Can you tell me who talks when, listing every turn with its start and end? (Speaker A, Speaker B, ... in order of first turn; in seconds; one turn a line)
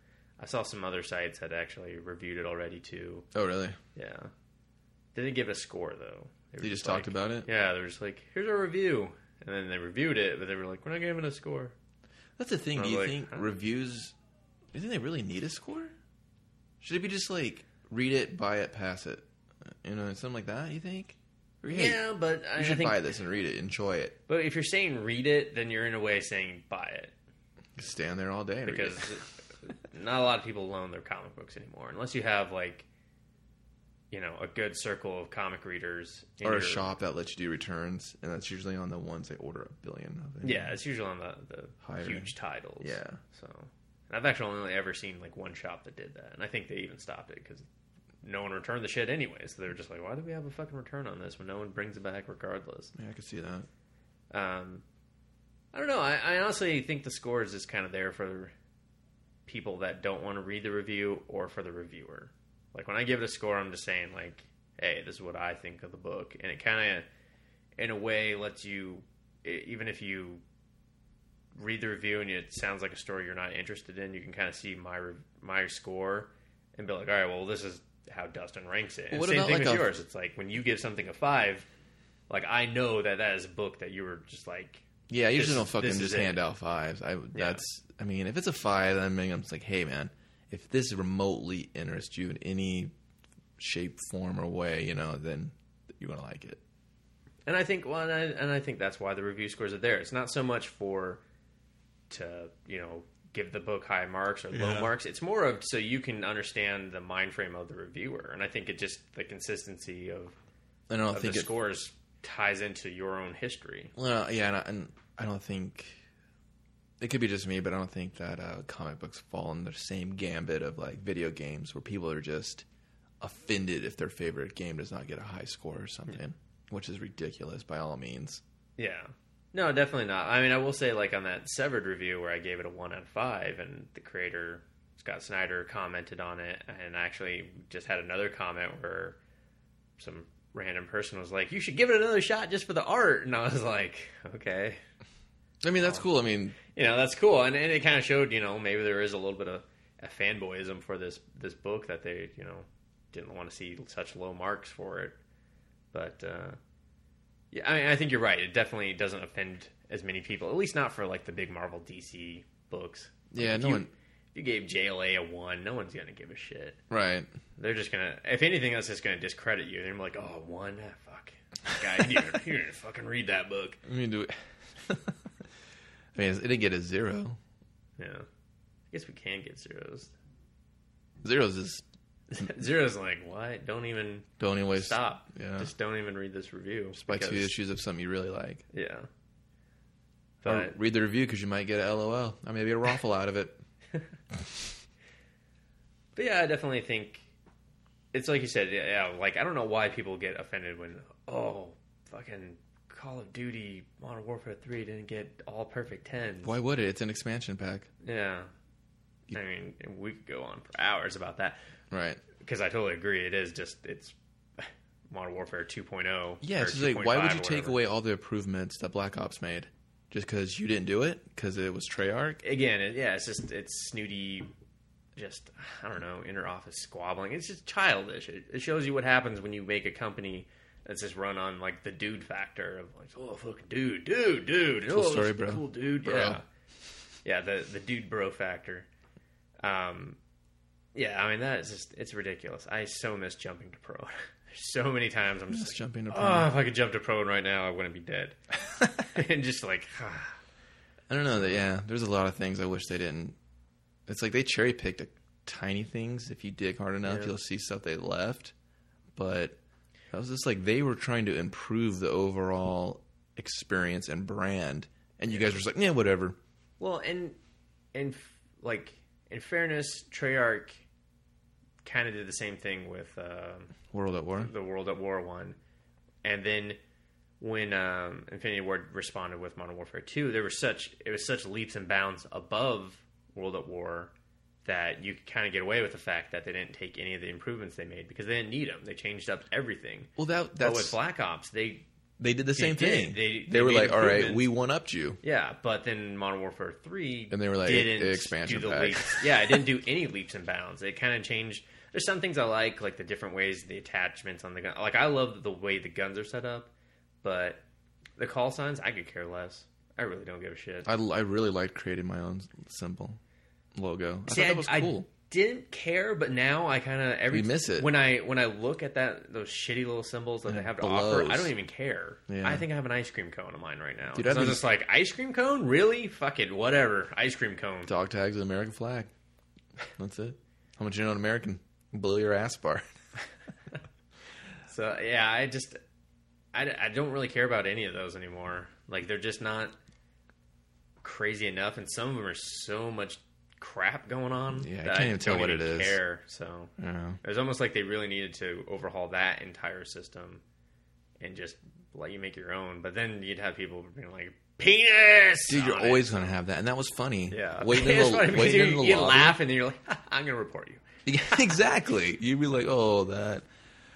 Speaker A: 0.4-3.3
Speaker B: 3.3-3.8
Speaker A: 3.9-4.3
Speaker A: 5.1-11.7
Speaker B: 6.6-7.5
Speaker B: 12.4-14.1
Speaker A: 12.8-13.5
Speaker B: 14.7-15.9
Speaker B: 16.8-22.0
Speaker A: 21.7-23.0
Speaker B: 22.6-24.1
Speaker A: 24.3-27.1
Speaker B: 27.8-29.1
Speaker A: 28.6-32.9
Speaker A: 34.1-36.9
Speaker B: 36.4-40.8
Speaker A: 40.4-47.6
Speaker B: 41.8-43.2
Speaker A: 48.2-52.9
Speaker B: 52.9-53.7
Speaker A: 54.3-54.8
Speaker A: 55.7-58.5
Speaker A: 59.5-67.0
Speaker A: 67.8-70.4
Speaker A: 71.5-81.7
Speaker B: 79.1-80.0
Speaker A: 82.3-86.4
Speaker B: 85.1-92.9
Speaker A: 87.3-87.6
Speaker B: 93.6-96.6
Speaker A: 97.5-101.2
Speaker A: 102.1-110.3
Speaker B: 104.5-104.9
Speaker B: 110.9-111.5
Speaker A: 111.1-113.9
Speaker B: 114.0-116.0
Speaker B: 117.0-122.6
Speaker B: 123.2-128.4
Speaker A: 128.8-139.2
Speaker A: 140.0-144.8
Speaker B: 145.6-146.6
Speaker A: 146.6-155.2
Speaker A: 155.9-156.6
Speaker A: 157.5-166.8
Speaker B: 163.3-163.9
Speaker B: 166.9-167.3
Speaker A: 167.6-173.8
Speaker B: 173.8-175.2
Speaker B: 176.1-177.4
Speaker A: 178.0-178.2
Speaker A: 178.9-180.1
Speaker B: 181.2-181.8
Speaker A: 182.3-187.5
Speaker B: 184.4-185.7
Speaker B: 186.9-188.6
Speaker A: 188.7-189.1
Speaker A: 190.4-190.7
Speaker B: 190.4-193.6
Speaker A: 196.2-197.2
Speaker A: 198.1-206.5
Speaker B: 206.4-207.9
Speaker A: 208.0-208.5
Speaker A: 209.3-211.6
Speaker B: 211.9-212.2
Speaker A: 212.3-217.8
Speaker B: 216.4-222.4
Speaker A: 222.4-224.5
Speaker A: 225.2-236.4
Speaker B: 234.9-236.4
Speaker A: 237.2-238.9
Speaker A: 239.6-240.2
Speaker A: 240.9-248.4
Speaker B: 245.5-246.5
Speaker A: 248.9-250.4
Speaker B: 251.1-253.3
Speaker A: 251.3-251.6
Speaker B: 254.1-258.5
Speaker A: 257.0-257.3
Speaker B: 259.1-259.6
Speaker B: 260.1-266.4
Speaker A: 266.8-267.4
Speaker A: 267.9-270.8
Speaker A: 271.8-273.8
Speaker B: 273.9-274.5
Speaker A: 274.4-275.6
Speaker A: 276.2-276.8
Speaker A: 277.4-284.1
Speaker A: 284.6-291.9
Speaker B: 290.2-290.9
Speaker B: 292.2-295.2
Speaker A: 292.6-294.5
Speaker A: 295.2-306.7
Speaker B: 297.3-299.6
Speaker A: 307.2-307.6
Speaker A: 308.2-310.9
Speaker B: 310.9-313.2
Speaker B: 313.8-315.1
Speaker A: 314.3-327.9
Speaker B: 317.3-317.9
Speaker B: 320.5-321.5
Speaker B: 322.3-322.6
Speaker B: 324.1-324.6
Speaker B: 327.9-329.1
Speaker B: 330.0-332.9
Speaker A: 334.7-335.8
Speaker A: 336.5-339.8
Speaker A: 341.0-350.4
Speaker B: 344.5-346.0
Speaker B: 346.8-347.2
Speaker A: 351.2-356.3
Speaker B: 355.5-359.4
Speaker A: 357.3-361.4
Speaker B: 361.1-363.4